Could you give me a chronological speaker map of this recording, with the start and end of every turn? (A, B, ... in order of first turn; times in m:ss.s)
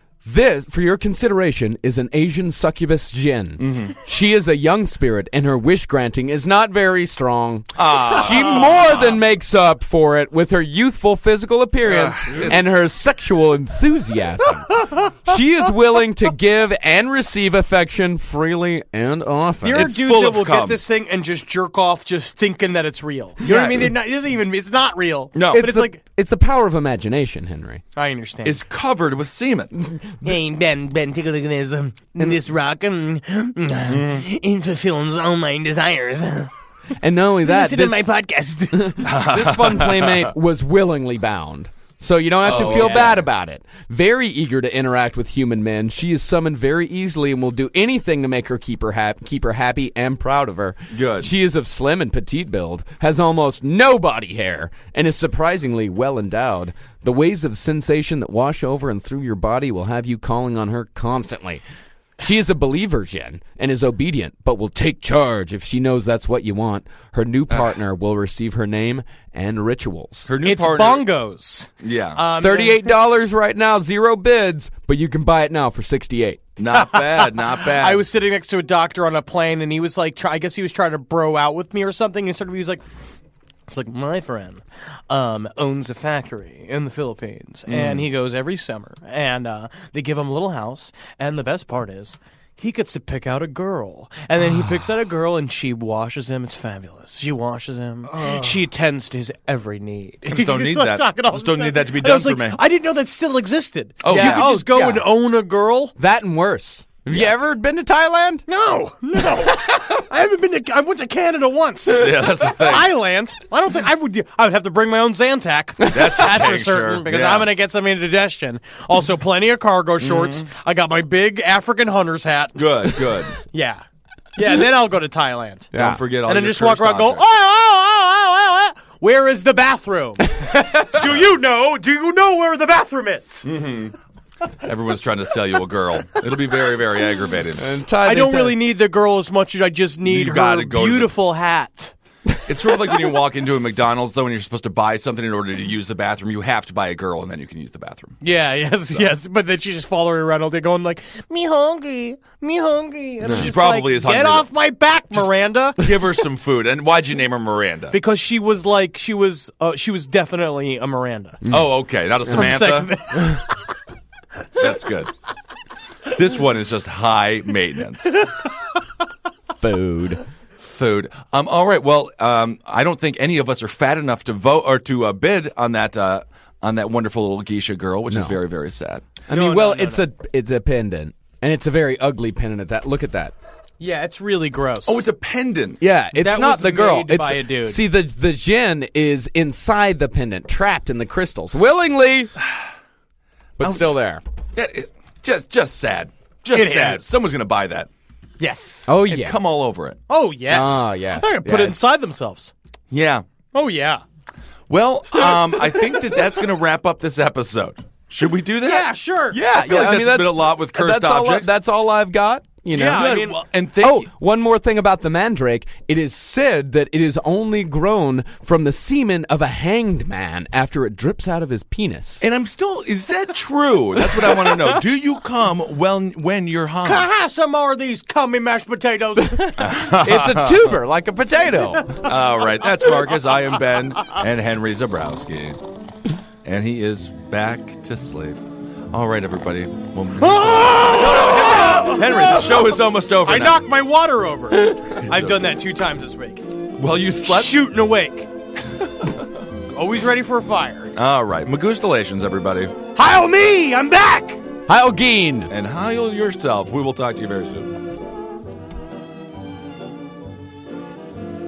0:00.2-0:20.0 A
0:03.6-0:03.9 B
0:07.8-0:09.2 B
0:11.9-0:12.6 B
0:12.2-0:12.6 C
0:19.6-0:26.0 C
0:19.7-0:20.8 B
0:23.4-0:23.9 B
0:25.3-0:25.7 B
0:25.5-0:27.8 A
0:28.0-0:28.6 C
0:28.4-0:29.7 B
0:30.2-0:36.5 C
0:33.8-0:34.2 B
0:37.0-0:38.1 A
0:37.4-0:39.0 C
0:38.7-1:01.6 A
0:39.0-0:40.3 B
0:42.4-0:43.1 C
0:42.4-0:43.2 B
0:50.9-0:51.3 B
1:02.2-1:10.3 A
1:10.3-1:11.1 B
1:10.4-1:12.9 C
1:11.8-1:12.2 B
1:12.4-1:16.4 A
1:16.6-1:18.0 B
1:16.7-1:22.8 C
1:23.7-1:46.0 C
1:27.7-1:28.1 B
1:40.3-1:42.6 B
1:44.0-1:44.5 B
1:44.1-1:45.1 A
1:46.0-1:48.4 A
1:48.5-2:03.8 C
1:51.9-1:52.9 B
1:55.9-1:57.5 B
2:00.0-2:00.4 B
2:02.6-2:03.4 B
2:04.4-2:05.7 C
2:05.7-2:06.0 A
2:05.7-2:07.2 B
2:06.2-2:13.4 C
2:11.0-2:11.2 B
2:13.4-2:13.9 B
2:14.6-2:17.7 B
2:17.6-2:18.6 A
2:18.0-2:21.9 C
2:20.0-2:21.1 B
2:22.5-2:28.2 B
2:28.2-2:35.9 C
2:33.3-2:34.5 B
2:35.1-2:38.0 B
2:37.9-2:41.4 C
2:41.5-2:42.9 B
2:42.3-2:43.7 C
2:44.6-2:45.1 B
2:46.1-2:48.2 B
2:49.6-2:50.2 A
2:50.7-2:59.2 B
2:58.1-2:58.4 A
2:59.3-3:03.3 A
2:59.3-3:00.0 C
3:03.8-3:05.0 C
3:04.8-3:05.8 B
3:05.8-3:12.3 A
3:06.1-3:07.8 C
3:13.6-3:14.2 A
3:13.6-3:13.9 B
3:14.5-3:17.9 B
3:16.5-3:17.2 C
3:18.4-3:18.9 C
3:18.9-3:19.4 A
3:19.1-3:20.0 B
3:20.1-3:22.5 C
3:20.5-3:21.8 A
3:22.9-3:23.2 B
3:23.5-3:24.0 C
3:24.7-3:28.9 B
3:25.1-3:26.0 C
3:28.6-3:29.4 C
3:29.3-3:33.2 A
3:29.5-3:31.5 B
3:32.7-3:33.4 C
3:32.8-3:34.1 B
3:33.8-3:42.2 A
3:42.2-3:47.1 B
3:46.8-3:49.6 C
3:49.2-3:52.0 A
3:49.6-3:50.8 B
3:52.0-3:55.6 B
3:56.4-4:03.6 B
4:00.2-4:02.7 C
4:03.2-4:06.4 C
4:05.0-4:05.5 B
4:06.8-4:07.7 B
4:07.2-4:08.3 C
4:09.7-4:10.9 C
4:11.0-4:12.8 B
4:12.9-4:14.4 C
4:14.7-4:15.5 A
4:15.5-4:17.7 B